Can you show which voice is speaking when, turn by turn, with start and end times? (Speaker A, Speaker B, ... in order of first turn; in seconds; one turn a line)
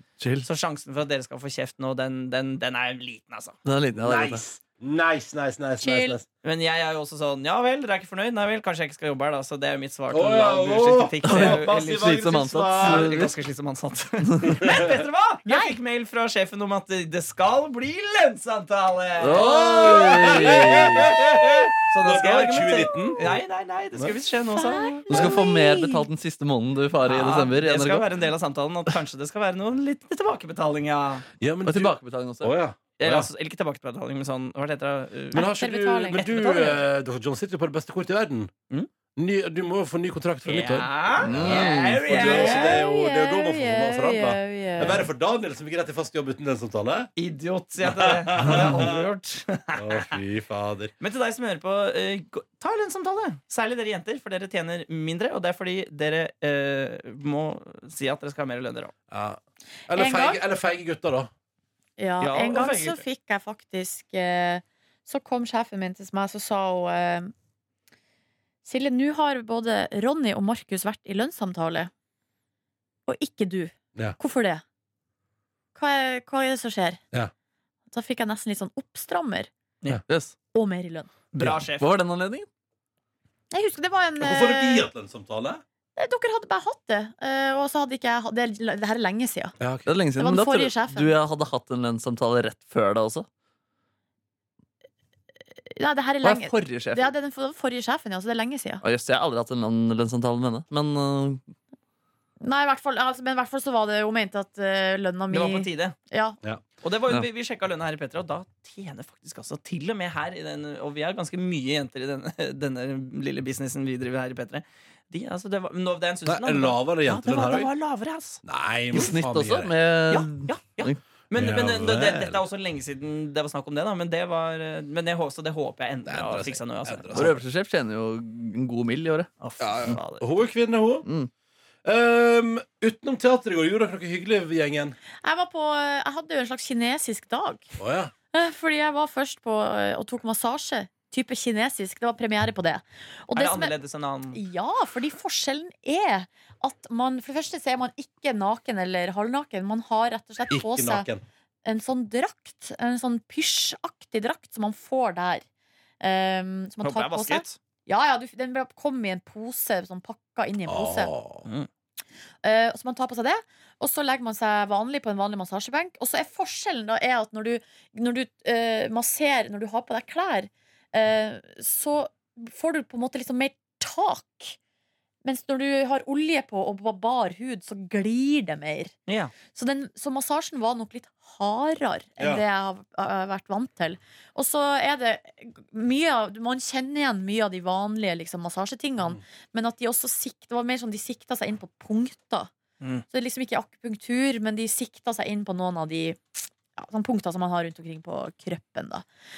Speaker A: 0.2-0.5
Speaker B: 0.4-3.5
Speaker A: 3.6-4.5
Speaker C: 3.9-6.2
Speaker D: 5.8-6.2
Speaker B: 6.4-25.0
Speaker C: 10.1-13.3
Speaker A: 11.2-13.3
Speaker A: 14.3-14.6
Speaker C: 14.6-14.9
Speaker D: 15.5-15.8
Speaker A: 19.2-21.1
Speaker C: 19.3-23.4
Speaker D: 24.5-26.1
Speaker A: 25.1-28.1
Speaker B: 27.0-31.2
Speaker C: 31.4-33.3
Speaker A: 31.6-32.5
Speaker B: 33.0-35.4
Speaker D: 35.3-36.3
Speaker C: 35.3-38.5
Speaker B: 36.2-36.8
Speaker C: 39.1-47.1
Speaker B: 40.4-42.8
Speaker A: 41.2-42.0
Speaker D: 42.1-45.1
Speaker B: 47.2-50.1
Speaker C: 47.8-49.0
Speaker C: 49.7-50.9
Speaker B: 51.0-58.9
Speaker C: 59.1-61.3
Speaker D: 59.9-60.4
Speaker D: 62.0-67.3
Speaker B: 62.2-63.0
Speaker D: 68.6-71.9
Speaker D: 73.0-74.6
Speaker D: 75.7-77.0
Speaker D: 77.9-79.5
Speaker A: 80.1-80.3
Speaker D: 80.5-81.1
Speaker B: 81.3-81.9
Speaker A: 81.8-82.5
Speaker D: 83.5-84.9
Speaker C: 84.2-85.6
Speaker D: 85.9-89.5
Speaker C: 89.6-89.9
Speaker A: 89.8-93.3
Speaker D: 90.2-91.1
Speaker D: 95.7-98.8
Speaker A: 96.2-97.1
Speaker A: 98.8-101.4
Speaker D: 102.4-106.4
Speaker B: 105.3-106.0
Speaker B: 106.8-118.4
Speaker C: 116.2-117.7
Speaker C: 118.4-119.7
Speaker A: 118.9-121.0
Speaker B: 120.1-127.2
Speaker C: 121.3-122.4
Speaker C: 126.0-127.4
Speaker A: 127.1-129.3
Speaker B: 129.4-130.4
Speaker C: 129.6-131.1
Speaker A: 131.0-131.3
Speaker C: 131.8-134.9
Speaker D: 135.2-137.7
Speaker C: 137.8-138.1
Speaker D: 138.3-143.7
Speaker B: 143.3-144.4
Speaker D: 144.3-151.1
Speaker C: 150.5-151.2
Speaker D: 151.6-155.4
Speaker D: 156.0-161.1
Speaker B: 156.8-157.6
Speaker C: 160.7-161.5
Speaker D: 162.4-174.6
Speaker D: 175.2-178.9
Speaker B: 179.1-179.3
Speaker D: 179.5-192.5
Speaker C: 182.2-182.4
Speaker D: 193.1-199.0